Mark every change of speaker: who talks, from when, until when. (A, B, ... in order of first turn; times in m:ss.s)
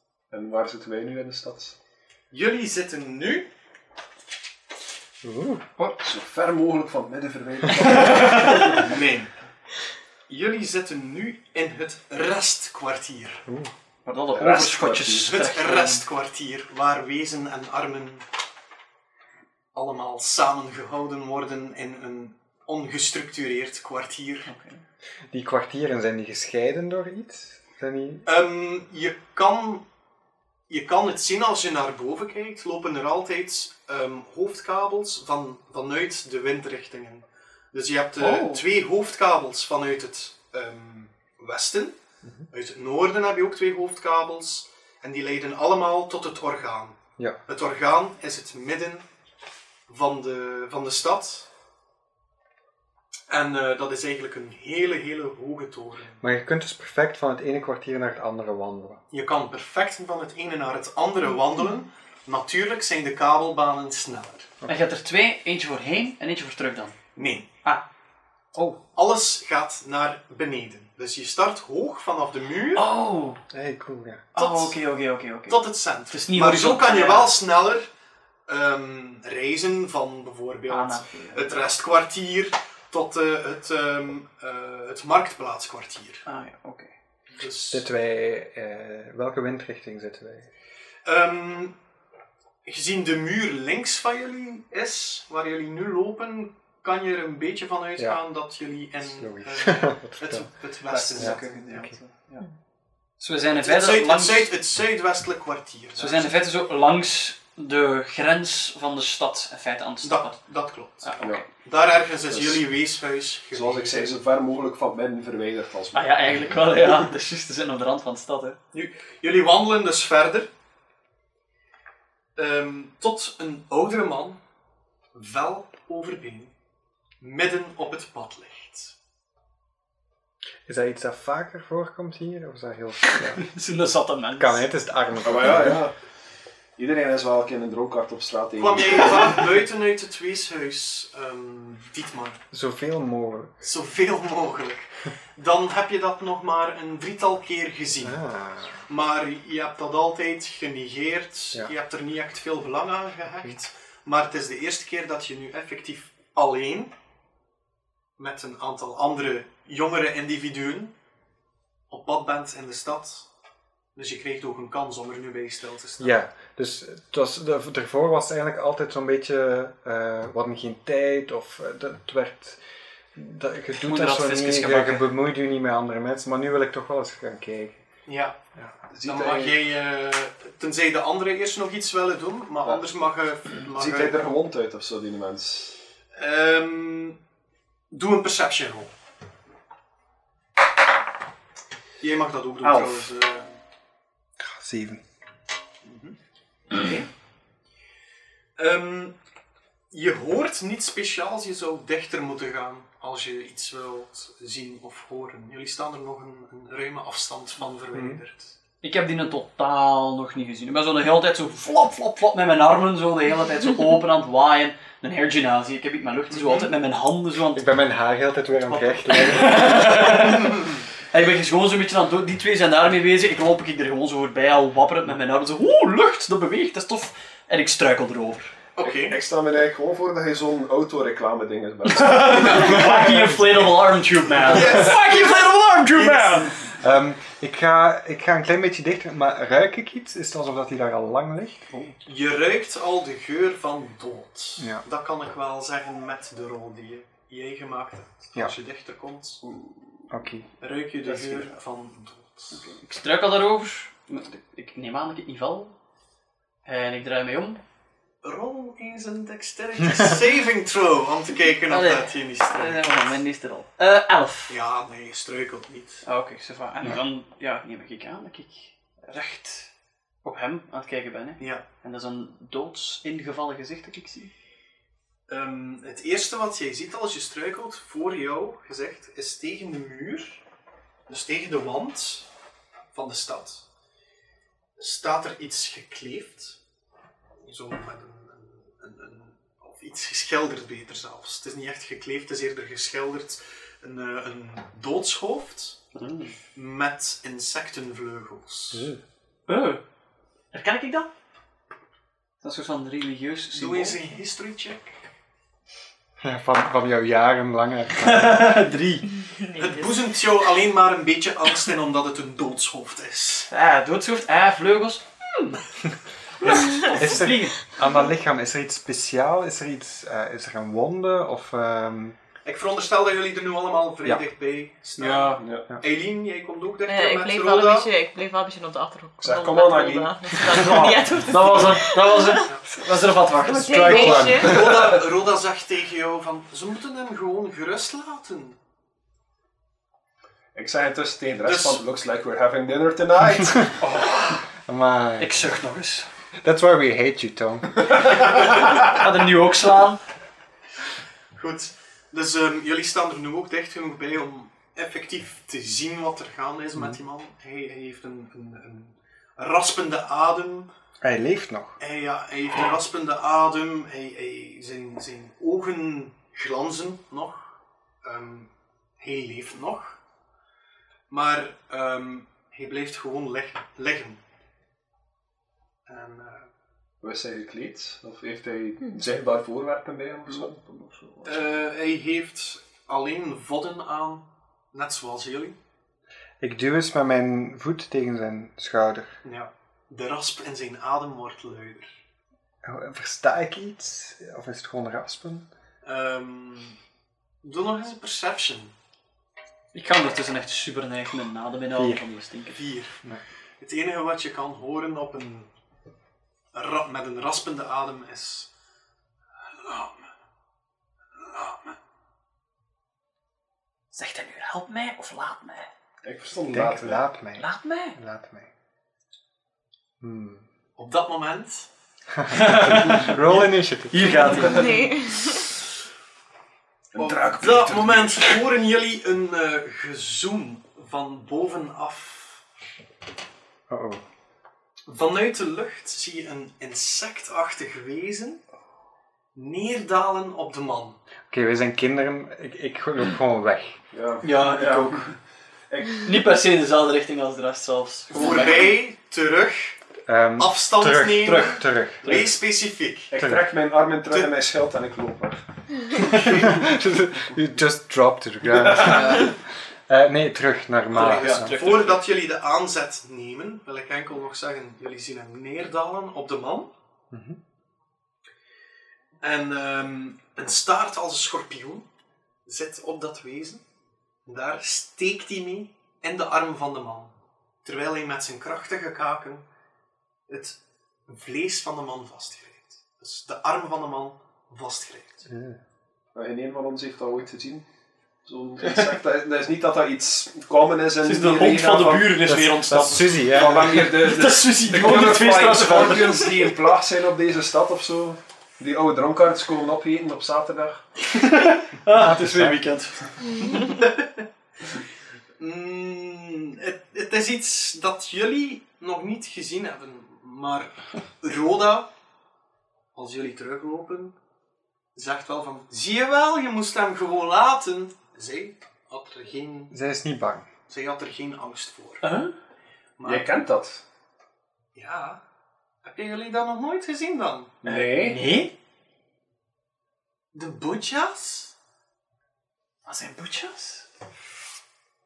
0:00.3-0:01.7 A
0:02.3-0:03.5 B
0:05.2-0:05.6 C
0:05.8-0:09.0 A
0:08.6-0:09.3 B
0:10.3-0:13.4 B
0:13.5-0:13.7 C
0:14.0-0:16.0 D
0:14.3-0:15.3 A
0:15.2-0:18.2 B
0:19.7-0:24.5 B
0:24.5-0:24.8 D
0:25.3-0:28.3 C
0:28.2-0:29.8 B
0:30.7-0:42.0 B
0:38.2-0:38.6 D
0:42.5-0:49.0 B
0:49.9-0:51.5 B
0:53.3-0:56.2 B
0:56.2-0:59.0 C
0:59.1-1:04.5 B
1:04.7-1:07.0 D
1:07.1-1:07.5 B
1:08.9-1:12.9 B
1:12.8-1:13.4 D
1:13.5-1:14.2 C
1:14.3-1:14.8 B
1:14.4-1:17.3 D
1:15.5-1:17.9 B
1:18.5-1:26.2 B
1:20.7-1:21.7 D
1:26.2-1:26.9 D
1:27.3-1:27.9 B
1:27.7-1:30.5 C
1:31.0-1:31.7 B
1:32.6-1:41.6 B
1:39.0-1:40.5 C
1:40.9-1:42.4 D
1:41.2-1:41.9 C
1:43.2-1:44.5 D
1:43.6-1:46.4 B
1:46.0-1:50.4 D
1:50.0-1:54.2 B
1:51.0-1:51.4 D
1:52.3-1:52.6 A
1:53.5-1:57.0 A
1:55.9-1:58.6 D
1:58.7-2:00.5 B
2:02.4-2:04.4 B
2:05.1-2:06.5 B
2:07.2-2:08.9 B
2:10.6-2:13.4 C
2:13.4-2:14.6 D
2:14.4-2:15.8 C
2:15.2-2:15.9 A
2:16.8-2:19.4 A
2:18.6-2:22.4 B
2:22.5-2:23.6 C
2:23.6-2:28.2 B
2:28.0-2:28.9 C
2:28.9-2:36.9 B
2:33.3-2:33.6 C
2:38.2-2:40.9 B
2:41.9-2:43.3 B
2:43.9-2:46.2 B
2:46.0-2:52.6 C
2:53.1-2:57.8 C
2:53.8-2:55.1 D
2:58.0-2:58.4 B
2:58.9-2:59.6 A
2:59.0-3:04.2 B
3:03.6-3:05.8 A
3:06.2-3:07.2 B
3:07.9-3:08.9 B
3:12.0-3:13.5 B
3:12.6-3:13.1 D
3:14.4-3:15.0 C
3:15.8-3:16.2 B
3:16.7-3:17.1 D
3:18.6-3:19.2 B
3:19.9-3:28.5 B
3:27.9-3:28.2 C
3:28.8-3:37.7 D
3:36.3-3:36.7 B
3:37.5-3:40.1 C
3:38.6-3:48.5 D
3:40.3-3:40.8 B
3:48.8-3:49.2 B
3:48.8-3:53.2 A
3:51.8-3:56.6 D
3:52.8-3:53.0 C
3:54.4-3:54.8 A
3:54.4-3:56.7 B
3:56.8-4:01.9 C
4:02.0-4:09.4 B
4:09.4-4:09.8 A
4:10.1-4:10.5 C
4:10.6-4:12.7 B
4:11.0-4:11.5 A
4:12.5-4:15.7 D
4:16.6-4:17.6 D
4:18.2-4:22.9 B
4:21.7-4:24.5 D
4:24.5-4:26.0 B
4:26.0-4:29.7 D
4:30.2-4:34.3 D
4:31.4-4:31.6 B
4:35.3-4:40.4 B
4:41.1-4:42.3 B
4:42.9-4:43.6 B
4:44.8-4:46.6 B
4:47.4-4:55.8 B
4:55.9-4:56.3 D
4:56.5-4:58.9 B
4:58.7-4:59.0 C
4:59.5-4:59.8 D
5:00.5-5:01.1 D
5:02.4-5:04.0 D
5:03.5-5:04.9 B
5:06.2-5:08.5 C
5:08.0-5:09.1 D
5:09.3-5:10.0 E
5:09.6-5:13.5 B
5:13.5-5:15.6 D
5:16.4-5:17.8 D
5:16.5-5:22.2 C
5:22.4-5:27.9 B
5:25.0-5:25.4 D
5:25.4-5:25.6 A
5:26.9-5:32.4 E
5:29.2-5:30.9 A
5:30.5-5:34.6 D
5:33.4-5:34.7 E
5:33.6-5:34.8 C
5:34.3-5:38.6 B
5:40.5-5:43.8 A
5:41.4-5:41.8 B
5:43.8-5:44.4 D
5:44.6-5:45.4 C
5:45.2-5:46.1 D
5:46.4-5:48.4 C
5:48.2-5:50.0 D
5:51.3-6:00.7 B
6:01.0-6:01.8 C
6:01.8-6:07.5 B
6:08.0-6:10.0 B
6:11.1-6:14.2 B
6:15.9-6:16.5 B
6:17.0-6:20.5 A
6:20.3-6:21.5 D
6:21.2-6:25.6 B
6:26.4-6:29.1 C
6:29.2-6:31.9 B
6:32.6-6:35.5 C
6:35.8-6:36.8 B
6:37.4-6:38.7 B
6:39.7-6:42.6 D
6:41.7-6:42.1 C
6:42.5-6:43.0 B
6:43.6-6:45.5 B
6:46.5-6:48.5 B
6:49.6-6:50.1 B
6:51.2-6:51.8 B
6:53.9-6:55.7 D
6:56.0-6:57.0 A
6:56.5-6:58.5 C
6:57.4-6:58.0 D
7:00.0-7:00.4 C
7:00.8-7:01.7 B
7:02.1-7:04.5 C
7:02.3-7:04.9 D
7:04.5-7:05.5 E
7:06.9-7:08.4 A
7:07.0-7:12.4 B
7:13.7-7:14.0 C
7:14.9-7:18.4 B
7:19.3-7:21.0 B
7:21.3-7:23.8 C
7:23.9-7:25.1 A
7:24.2-7:25.1 D
7:25.7-7:26.1 A
7:26.0-7:28.7 D
7:28.1-7:29.8 B
7:30.1-7:32.3 C
7:30.4-7:33.1 B
7:33.1-7:35.4 A
7:33.2-7:33.4 C
7:34.1-7:34.3 B
7:36.1-7:36.5 B
7:36.1-7:41.6 C
7:38.7-7:39.3 D
7:40.9-7:42.0 D
7:40.9-7:46.7 B
7:47.1-7:47.4 C
7:49.2-7:51.8 B
7:52.4-7:53.6 B
7:54.2-7:59.4 B
8:00.3-8:05.3 B
8:05.3-8:05.6 C
8:06.1-8:07.6 A
8:08.2-8:12.3 A
8:08.6-8:08.9 D
8:11.0-8:16.5 D
8:12.2-8:14.0 C
8:13.3-8:20.8 A
8:21.1-8:23.9 D
8:21.9-8:22.7 C
8:25.4-8:31.9 B
8:32.9-8:34.1 B
8:34.9-8:39.7 B
8:39.7-8:40.5 C
8:40.7-8:42.1 B
8:42.0-8:42.3 D
8:43.0-8:43.3 B
8:43.0-8:43.8 A
8:44.7-8:45.2 B
8:45.8-8:47.6 B
8:47.6-8:48.2 A
8:47.6-8:48.5 D
8:50.3-8:51.5 B
8:52.8-8:53.8 D